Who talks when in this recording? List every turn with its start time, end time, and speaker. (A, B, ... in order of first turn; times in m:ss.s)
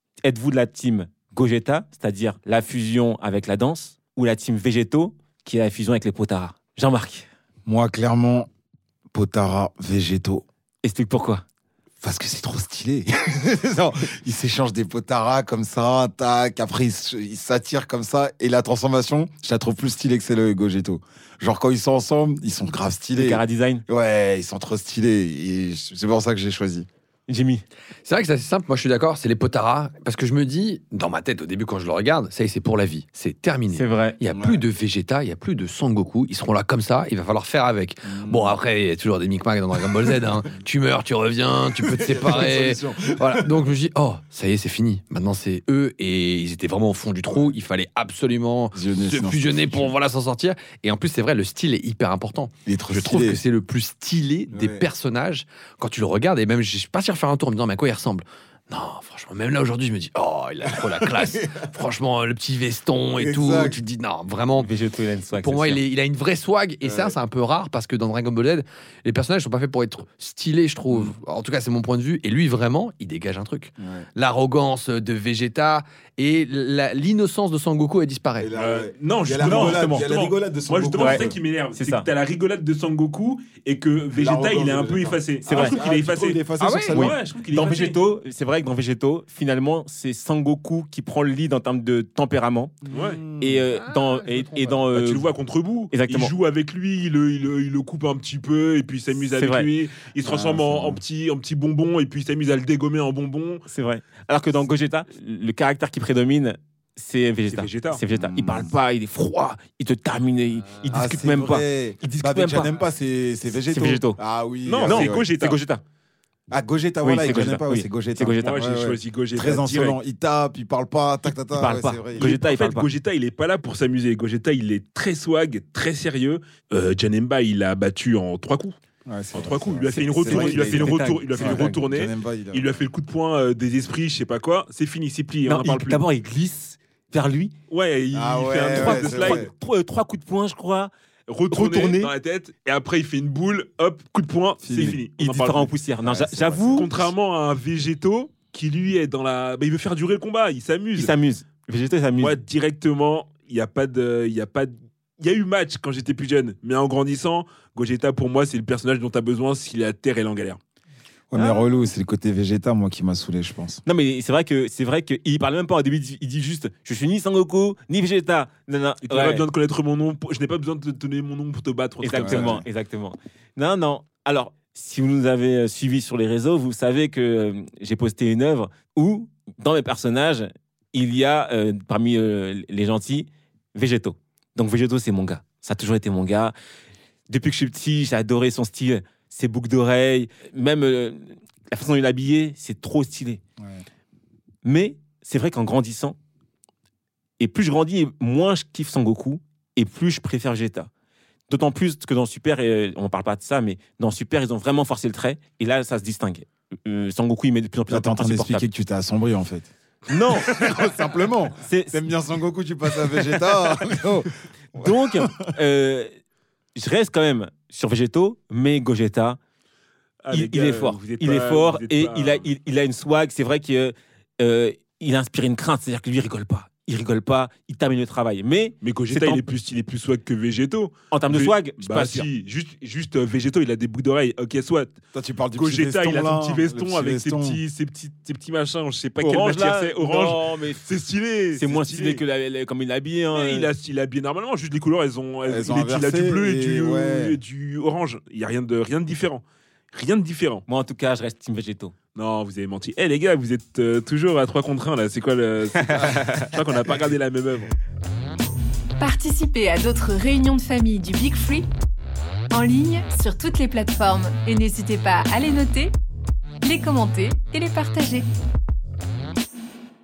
0:00.2-0:07.2 A
0:07.6-0:08.5 B
0:09.1-0:10.4 B
0:10.8-0:11.4 A
0:12.0-0:26.9 B
0:23.1-0:23.8 A
0:27.3-0:27.6 A
0:28.0-1:04.7 C
0:33.7-0:34.2 A
0:34.3-0:34.6 B
0:38.0-0:38.6 B
0:41.8-0:43.7 B
0:48.7-0:49.9 B
0:52.6-0:53.4 B
0:54.5-0:54.8 B
1:01.0-1:01.5 B
1:03.2-1:03.8 B
1:04.5-1:05.8 A
1:05.4-1:18.5 C
1:06.8-1:07.1 B
1:13.8-1:14.0 B
1:18.4-1:21.4 B
1:18.6-1:28.0 D
1:19.4-1:19.9 A
1:21.0-1:22.1 A
1:24.1-1:27.2 B
1:25.4-1:25.8 A
1:26.6-1:27.0 C
1:26.9-1:32.8 A
1:32.9-1:33.7 B
1:32.9-1:33.2 D
1:33.4-1:35.3 A
1:33.7-1:34.8 C
1:34.9-1:43.6 D
1:35.9-1:36.3 A
1:39.2-1:39.7 A
1:40.2-1:41.0 B
1:43.7-1:52.7 A
1:47.5-1:48.0 D
1:48.1-1:48.7 B
1:50.9-1:55.2 B
1:53.5-1:54.2 A
1:54.6-1:55.6 D
1:54.8-1:55.8 A
1:56.5-2:02.3 B
1:57.0-1:58.6 A
1:58.4-2:00.0 D
2:01.3-2:02.9 A
2:02.2-2:08.8 D
2:09.0-2:12.7 B
2:09.3-2:16.0 D
2:09.9-2:11.8 A
2:15.5-2:17.5 A
2:17.7-2:19.4 D
2:18.1-2:19.5 B
2:18.7-2:20.9 A
2:21.3-2:25.7 D
2:21.5-2:22.1 A
2:24.6-2:25.0 B
2:24.7-2:26.9 A
2:26.0-2:27.0 B
2:26.7-2:31.1 D
2:30.9-2:32.4 A
2:32.2-2:40.6 D
2:41.3-2:43.8 B
2:41.3-2:41.8 A
2:43.8-2:49.4 A
2:49.0-2:52.6 D
2:52.0-3:06.5 A
2:52.1-2:52.6 B
3:07.3-3:13.4 A
3:14.6-3:16.2 A
3:17.4-3:20.9 A
3:21.5-3:28.7 A
3:27.9-3:29.7 B
3:30.1-3:30.6 A
3:30.4-3:35.5 B
3:31.5-3:32.1 A
3:33.5-3:34.0 A
3:34.7-3:36.1 A
3:36.7-3:39.4 A
3:40.2-3:42.5 D
3:40.3-3:49.4 A
3:48.8-3:55.0 D
3:51.1-3:52.3 A
3:55.1-3:57.6 B
3:55.5-4:02.2 D
3:59.2-4:00.8 A
4:01.5-4:03.7 A
4:03.3-4:10.6 D
4:05.4-4:07.4 B
4:10.7-4:11.9 A
4:12.2-4:17.7 D
4:15.9-4:16.5 A
4:19.0-4:21.6 E
4:22.5-4:25.9 E
4:26.6-4:28.2 E